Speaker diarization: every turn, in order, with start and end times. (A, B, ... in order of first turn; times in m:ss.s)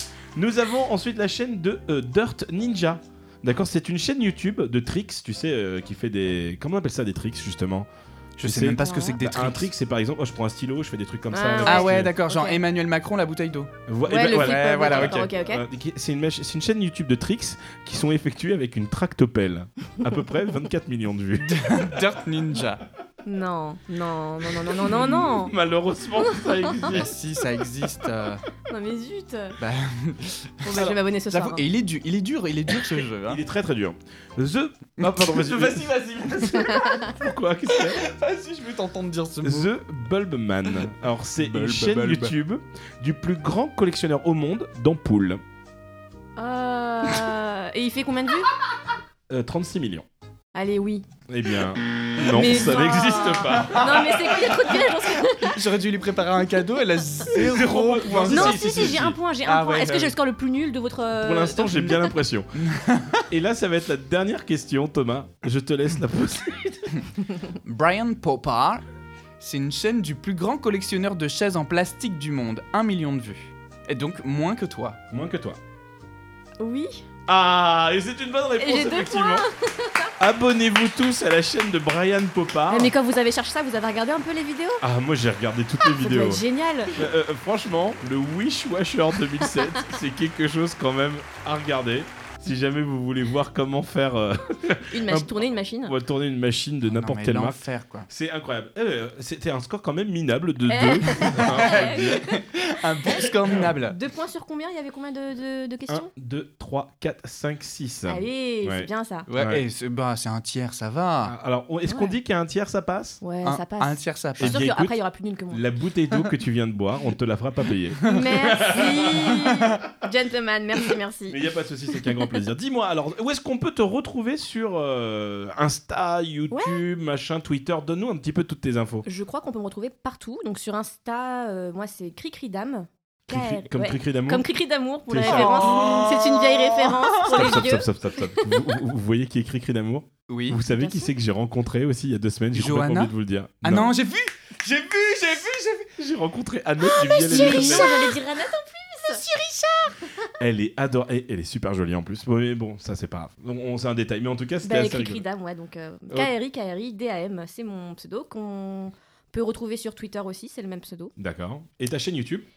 0:00.4-0:07.9 A
0:08.4-0:09.7 B
0:08.4-0:12.1 A
0:08.8-0:09.2 C
0:11.3-0:12.6 C
0:11.6-0:15.3 B
0:13.9-0:22.0 A
0:14.1-0:15.6 C
0:21.4-0:22.8 B
0:23.2-0:25.5 C
0:24.7-0:27.2 A
0:26.3-0:26.7 C
0:26.8-0:28.4 B
0:28.7-0:29.6 C
0:29.6-0:33.4 B
0:30.6-0:31.6 C
0:30.7-0:31.0 A
0:33.2-0:38.0 A
0:35.0-0:37.2 B
0:36.7-0:37.0 C
0:37.7-0:39.7 B
0:39.4-0:45.4 A
0:41.4-0:42.4 B
0:46.4-0:48.5 C
0:49.3-0:50.1 A
0:50.5-0:51.1 C
0:51.3-0:54.9 A
0:52.3-0:55.5 C
0:55.4-0:58.8 B
0:57.3-0:59.2 A
0:57.6-1:02.0 C
0:59.4-1:00.2 B
1:01.2-1:02.7 A
1:01.8-1:03.2 B
1:03.2-1:07.0 A
1:07.6-1:08.8 B
1:09.4-1:15.0 B
1:15.1-1:15.6 A
1:16.6-1:17.1 C
1:17.3-1:19.5 A
1:18.6-1:20.1 C
1:20.2-1:22.9 A
1:22.7-1:24.8 C
1:24.8-1:42.3 A
1:25.9-1:27.0 C
1:34.9-1:35.9 C
1:36.9-1:38.1 B
1:40.7-1:42.4 C
1:41.3-1:44.0 B
1:43.8-1:46.1 C
1:45.9-1:49.6 A
1:48.1-1:49.3 C
1:49.3-1:51.4 B
1:51.2-1:53.2 A
1:51.9-1:52.1 C
1:53.2-1:55.7 C
1:53.4-1:54.6 B
1:54.4-1:55.0 A
1:55.5-1:59.6 A
1:58.0-2:01.4 C
2:01.3-2:09.1 A
2:06.5-2:06.8 C
2:09.1-2:17.9 C
2:13.3-2:14.4 A
2:15.1-2:15.8 A
2:15.2-2:17.3 B
2:17.2-2:23.9 A
2:20.3-2:20.6 B
2:20.7-2:21.1 C
2:22.5-2:26.0 B
2:26.0-2:28.1 A
2:26.9-2:29.2 C
2:27.1-2:28.2 B
2:29.1-2:30.0 B
2:30.4-2:35.2 A
2:34.6-2:41.1 C
2:41.2-2:42.5 A